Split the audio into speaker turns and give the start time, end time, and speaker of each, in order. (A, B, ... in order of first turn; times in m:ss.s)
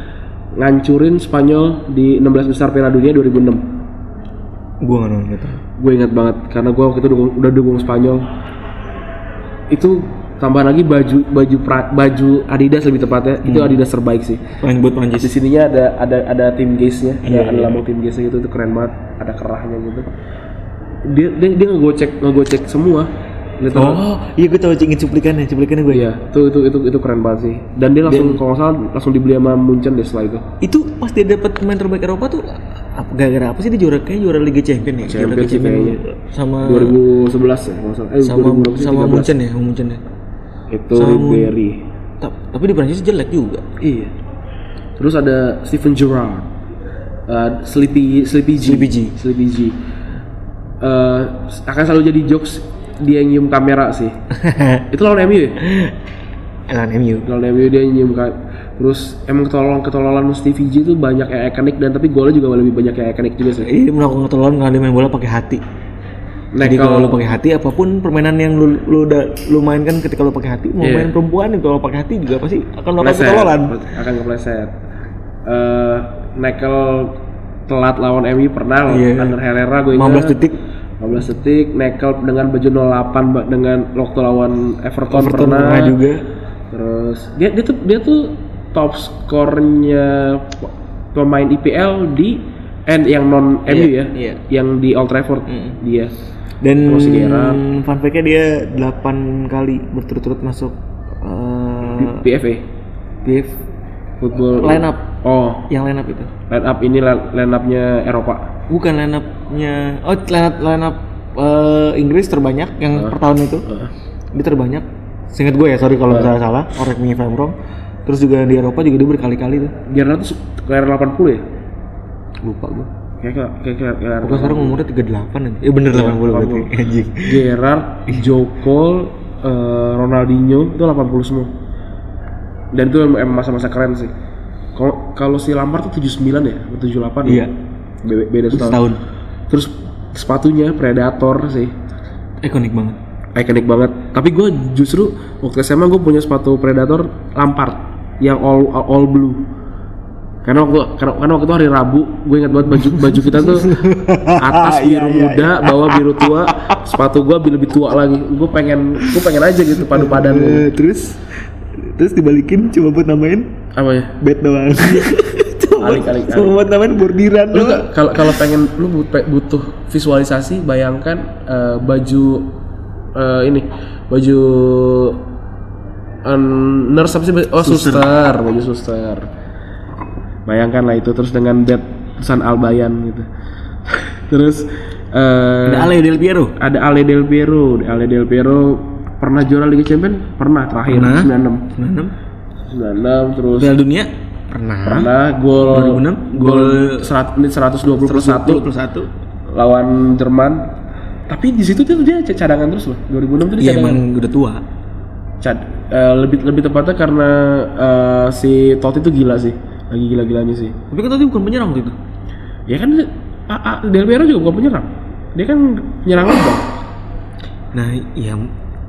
0:00.6-0:03.6 A
0:04.8-0:05.6 B
0:05.8-0:08.2 A
0:09.7-0:14.5 A
0:13.4-0:13.8 B
0:14.6-0:15.3 B
0:15.2-0:20.1 A
0:17.2-0:17.8 B
0:21.0-0:24.0 A
0:23.7-0:26.1 B
0:25.9-0:30.5 A
0:28.0-0:28.4 B
0:30.6-0:37.0 B
0:35.0-0:36.0 A
0:36.6-0:39.3 A
0:38.2-0:40.0 B
0:40.7-0:41.8 A
0:40.9-0:41.5 B
0:42.2-0:43.6 B
0:43.8-0:44.1 A
0:45.0-0:46.5 A
0:47.3-0:49.8 A
0:48.6-0:49.1 B
0:50.8-0:54.1 A
0:54.3-0:54.8 B
0:54.9-0:55.6 A
0:55.6-0:55.9 B
0:56.7-0:57.3 B
0:57.2-1:03.7 A
1:03.6-1:05.6 B
1:06.5-1:07.2 A
1:06.6-1:13.7 B
1:10.8-1:11.1 A
1:13.0-1:14.7 A
1:15.4-1:17.2 A
1:17.7-1:20.4 A
1:18.9-1:19.4 B
1:19.9-1:20.6 B
1:21.0-1:25.9 A
1:25.1-1:26.2 B
1:26.7-1:36.1 A
1:33.7-1:34.4 B
1:35.5-1:35.8 B
1:36.6-1:42.2 B
1:36.8-1:37.6 A
1:41.9-1:42.7 A
1:43.2-1:43.6 B
1:44.2-1:45.7 A
1:44.5-1:45.0 B
1:45.7-1:46.3 B
1:46.5-1:48.5 A
1:48.7-1:53.6 B
1:52.9-1:53.9 A
1:54.3-1:57.5 B
1:56.1-1:56.3 A
1:58.0-1:59.7 B
1:59.9-2:01.4 A
2:02.4-2:02.9 B
2:03.2-2:04.8 A
2:04.2-2:07.4 B
2:05.9-2:06.7 A
2:07.2-2:11.5 A
2:08.1-2:08.3 B
2:12.7-2:14.1 A
2:14.7-2:17.5 A
2:17.2-2:17.5 B
2:18.0-2:18.8 A
2:18.5-2:19.0 B
2:19.5-2:21.7 A
2:22.4-2:23.0 B
2:23.4-2:29.5 A
2:30.4-2:33.8 A
2:32.7-2:36.8 B
2:34.4-2:40.7 A
2:39.8-2:43.5 B
2:43.7-2:44.1 A
2:44.2-2:48.4 B
2:44.8-2:45.1 A
2:45.8-2:46.6 A
2:47.5-2:52.5 A
2:53.1-2:55.2 A
2:56.2-2:59.3 A
2:57.6-2:58.1 B
3:00.5-3:03.3 A
3:03.9-3:05.9 A
3:05.6-3:06.5 B
3:06.6-3:11.6 A
3:10.9-3:12.1 B
3:12.7-3:13.7 A
3:13.5-3:17.1 B
3:14.8-3:18.6 A
3:18.0-3:19.1 B
3:19.5-3:20.7 A
3:21.3-3:24.0 A
3:23.6-3:24.6 B
3:25.4-3:30.8 A
3:30.9-3:32.0 B
3:32.7-3:36.7 A
3:37.7-3:38.5 B